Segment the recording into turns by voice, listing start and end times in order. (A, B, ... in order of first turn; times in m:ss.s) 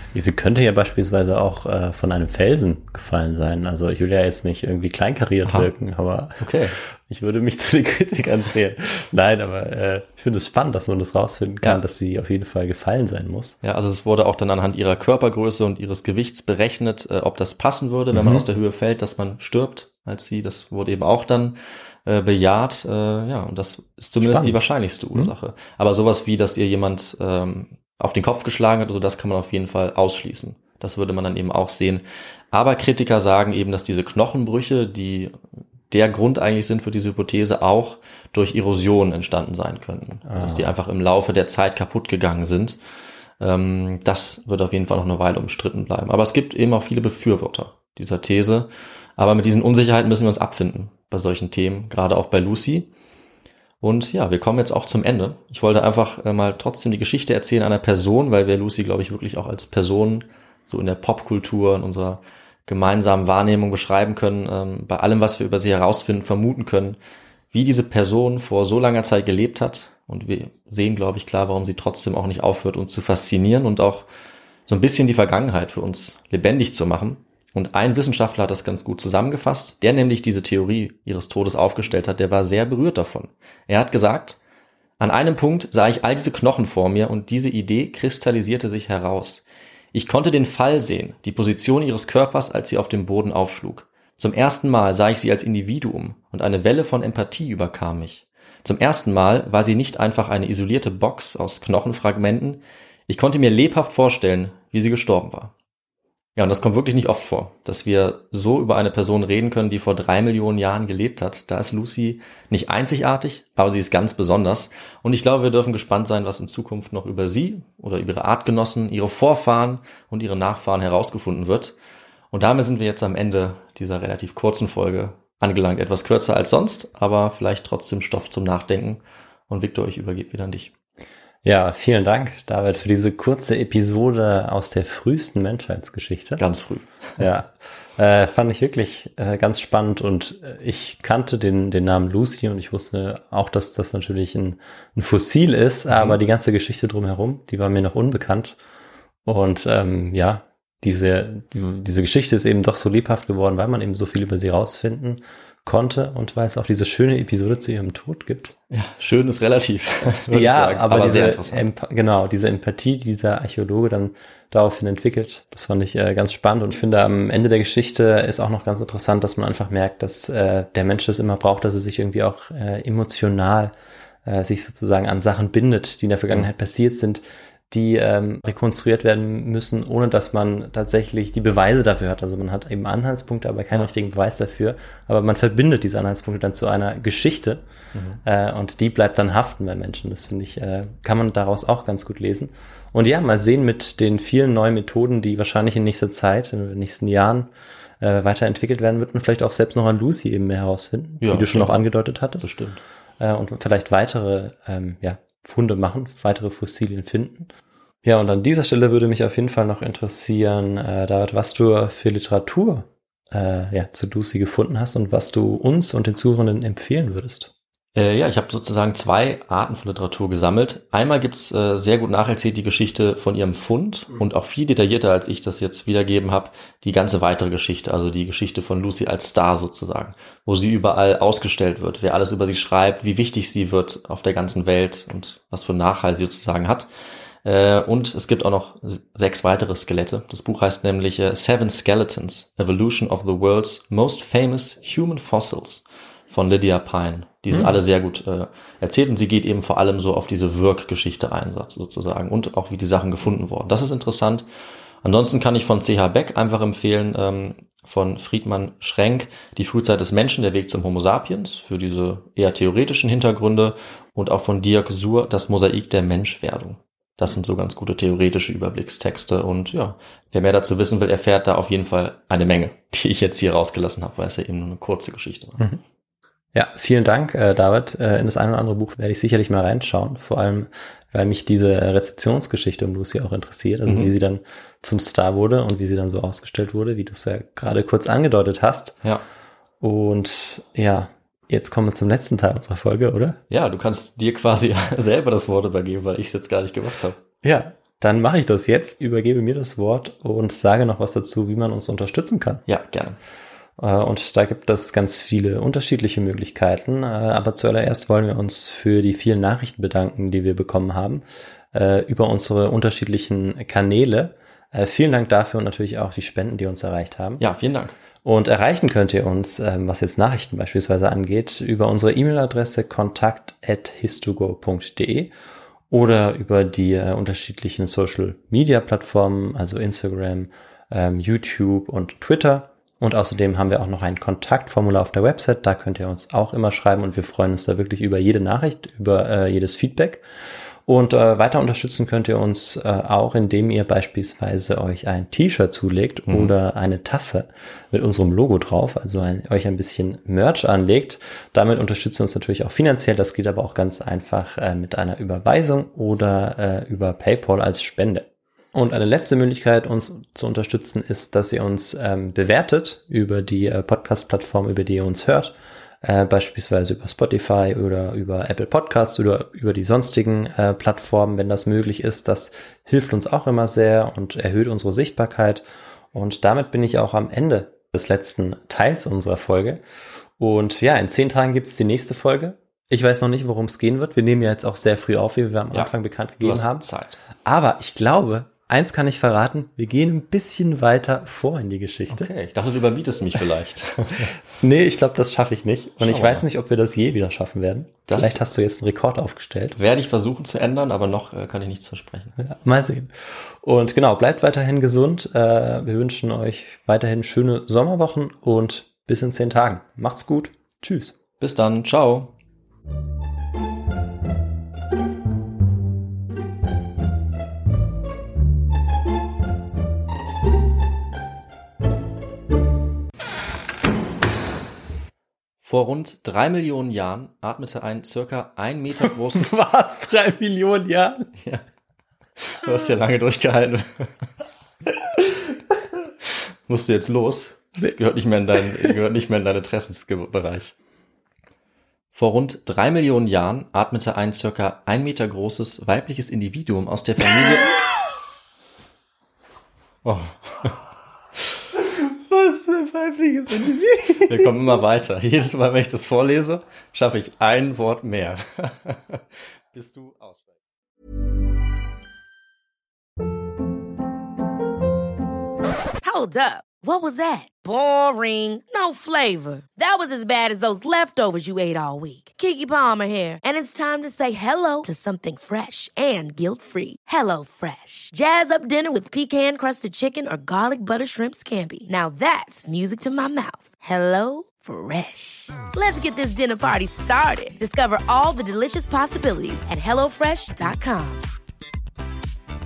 0:00.1-0:13.6 A
0:06.4-0:06.8 B
0:13.6-0:35.3 B
0:18.1-0:18.4 A
0:24.2-0:24.6 A
0:35.9-0:42.8 B
0:40.2-0:40.7 A
0:43.4-0:52.9 B
0:53.8-1:07.0 B
1:07.5-1:14.1 B
1:14.6-1:24.4 B
1:25.0-1:45.5 B
1:46.4-2:01.8 B
2:02.3-2:10.7 B
2:11.4-2:16.4 A
2:16.4-2:17.2 B
2:17.2-2:28.6 A
2:29.2-2:38.5 A
2:38.7-2:41.6 B
2:40.3-3:07.6 A
3:08.2-3:22.5 A
3:21.2-3:21.8 B
3:22.4-3:22.8 B
3:23.2-3:27.5 A
3:28.0-3:37.5 A
3:37.9-3:56.9 B
3:57.4-4:14.4 B
4:07.5-4:07.8 A
4:15.0-4:35.6 B
4:36.5-4:49.0 A
4:43.9-4:44.1 B
4:49.8-4:53.4 A
4:53.5-4:57.2 B
4:57.4-5:02.6 A
5:02.7-5:03.2 B
5:03.8-5:17.4 A
5:17.4-5:17.9 B
5:18.2-5:25.3 A
5:25.9-5:40.2 A
5:40.8-6:19.8 A
5:46.3-5:46.5 B
6:20.4-6:26.8 A
6:25.7-6:27.2 B
6:27.4-6:32.3 A
6:32.1-6:34.3 B
6:34.2-6:39.8 A
6:36.0-6:36.4 B
6:38.1-6:38.4 B
6:39.8-6:42.3 B
6:42.4-6:51.1 A
6:51.4-6:52.3 B
7:05.6-7:09.6 B
7:09.0-7:11.3 A
7:11.4-7:11.6 B
7:12.4-7:14.1 B
7:16.7-7:20.7 B
7:22.1-7:27.7 B
7:30.0-7:30.8 B
7:31.8-7:34.5 A
7:34.2-7:39.2 B
7:39.7-7:40.5 B
7:46.0-8:11.3 C